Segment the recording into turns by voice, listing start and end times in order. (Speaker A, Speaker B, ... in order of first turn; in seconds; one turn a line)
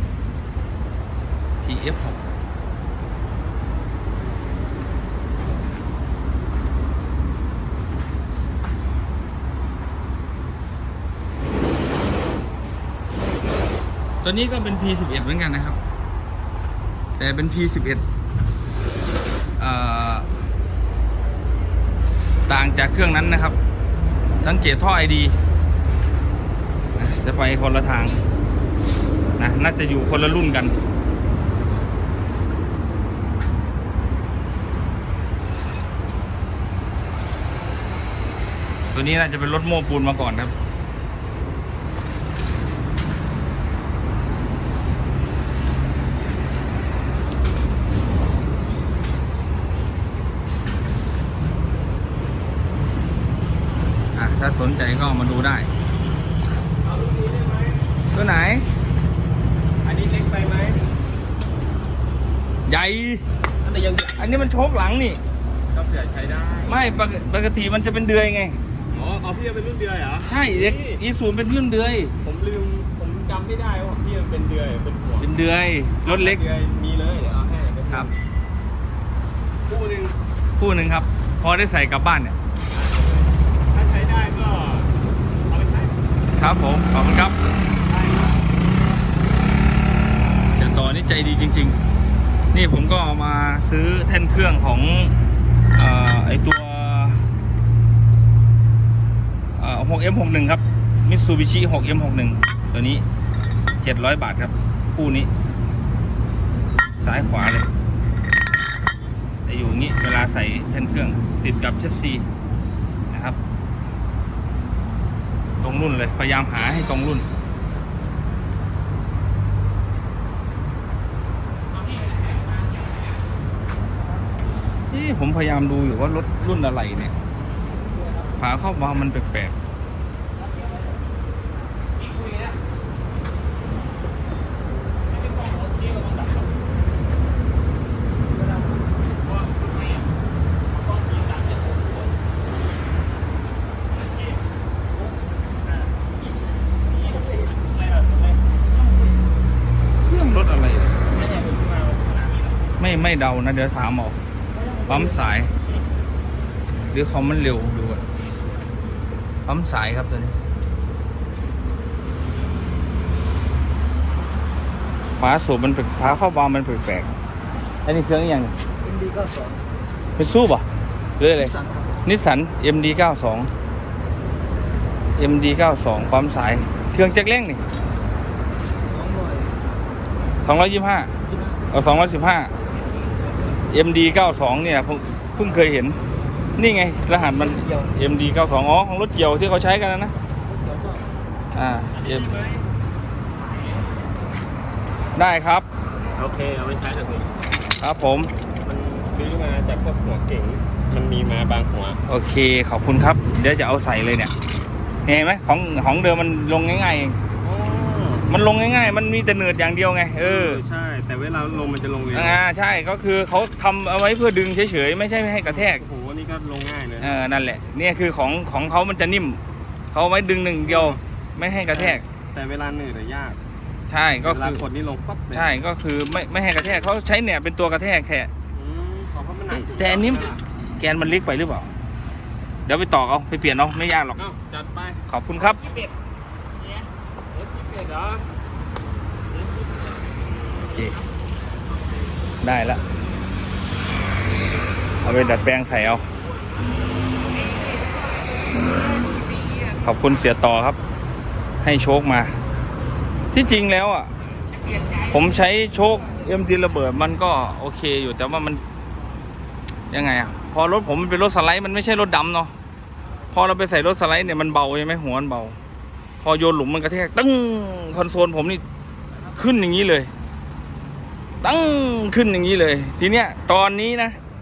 Speaker A: 1.6-2.2
Speaker A: 14.2-15.8
Speaker A: 17.2-18.0
Speaker A: 19.6-20.3
Speaker A: 22.5-23.6
Speaker A: 24.4-25.3
Speaker A: 27.0-28.2
Speaker A: 29.4-30.8
Speaker A: 38.9-40.5
Speaker A: 54.1-55.7
Speaker B: 56.8-57.8
Speaker A: 58.1-58.7
Speaker B: 59.8-60.8
Speaker A: 62.7-63.2
Speaker B: 63.6-64.5
Speaker A: 64.2-65.2
Speaker B: 65.7-66.9
Speaker A: 66.7-68.6
Speaker B: 68.9-71.0
Speaker A: 70.3-72.2
Speaker B: 72.2-75.3
Speaker A: 75.2-76.4
Speaker B: 76.0-78.1
Speaker B: 79.7-80.2
Speaker A: 80.6-82.4
Speaker B: 83.7-84.9
Speaker B: 85.5-85.9
Speaker A: 86.4-87.4
Speaker B: 87.9-88.3
Speaker A: 90.6-91.8
Speaker A: 92.5-95.1
Speaker A: 95.8-97.2
Speaker A: 99.6-103.0
Speaker A: 103.8-105.3
Speaker A: 107.0-107.7
Speaker A: 109.5-112.2
Speaker A: 113.1-113.4
Speaker A: 115.6-117.2
Speaker C: 121.9-123.1
Speaker A: 124.9-127.1
Speaker A: 128.4-129.6
Speaker C: 132.1-132.5
Speaker C: 135.2-136.4
Speaker B: 139.4-139.9
Speaker B: 140.9-141.8
Speaker C: 141.0-141.8
Speaker B: 147.0-148.3
Speaker A: 150.1-151.0
Speaker B: 151.2-152.2
Speaker A: 152.8-154.2
Speaker A: 154.8-155.5
Speaker A: 156.9-158.0
Speaker A: 159.4-160.4
Speaker A: 165.2-167.1
Speaker A: 167.8-168.5
Speaker C: 168.8-169.6
Speaker A: 170.2-170.6
Speaker A: 171.2-173.5
Speaker C: 171.4-171.9
Speaker A: 175.2-177.6
Speaker C: 178.8-179.7
Speaker A: 180.4-181.1
Speaker C: 181.3-181.6
Speaker A: 181.7-182.5
Speaker A: 183.7-186.0
Speaker A: 186.6-190.1
Speaker B: 190.5-191.0
Speaker A: 191.5-192.3
Speaker B: 191.9-192.7
Speaker A: 195.2-195.7
Speaker B: 196.2-197.3
Speaker A: 197.8-198.3
Speaker B: 198.6-202.0
Speaker A: 202.1-204.3
Speaker A: 205.1-207.2
Speaker B: 207.4-208.3
Speaker A: 208.3-210.6
Speaker B: 210.2-212.4
Speaker A: 212.1-215.8
Speaker B: 215.4-217.2
Speaker A: 217.0-219.4
Speaker A: 219.9-222.0
Speaker B: 220.6-221.0
Speaker B: 221.7-223.4
Speaker A: 223.9-224.6
Speaker B: 224.2-225.5
Speaker A: 225.3-228.3
Speaker B: 228.5-230.4
Speaker A: 229.5-230.2
Speaker A: 230.8-231.7
Speaker A: 232.7-234.2
Speaker B: 234.2-235.0
Speaker A: 235.1-235.7
Speaker B: 235.6-235.9
Speaker B: 237.3-238.3
Speaker B: 239.3-240.1
Speaker A: 242.4-242.8
Speaker A: 245.0-246.0
Speaker A: 249.7-250.8
Speaker A: 251.6-252.4
Speaker A: 253.3-254.1
Speaker A: 254.9-258.6
Speaker A: 259.9-262.5
Speaker A: 263.3-265.6
Speaker A: 266.2-268.6
Speaker A: 269.4-270.1
Speaker A: 271.4-274.2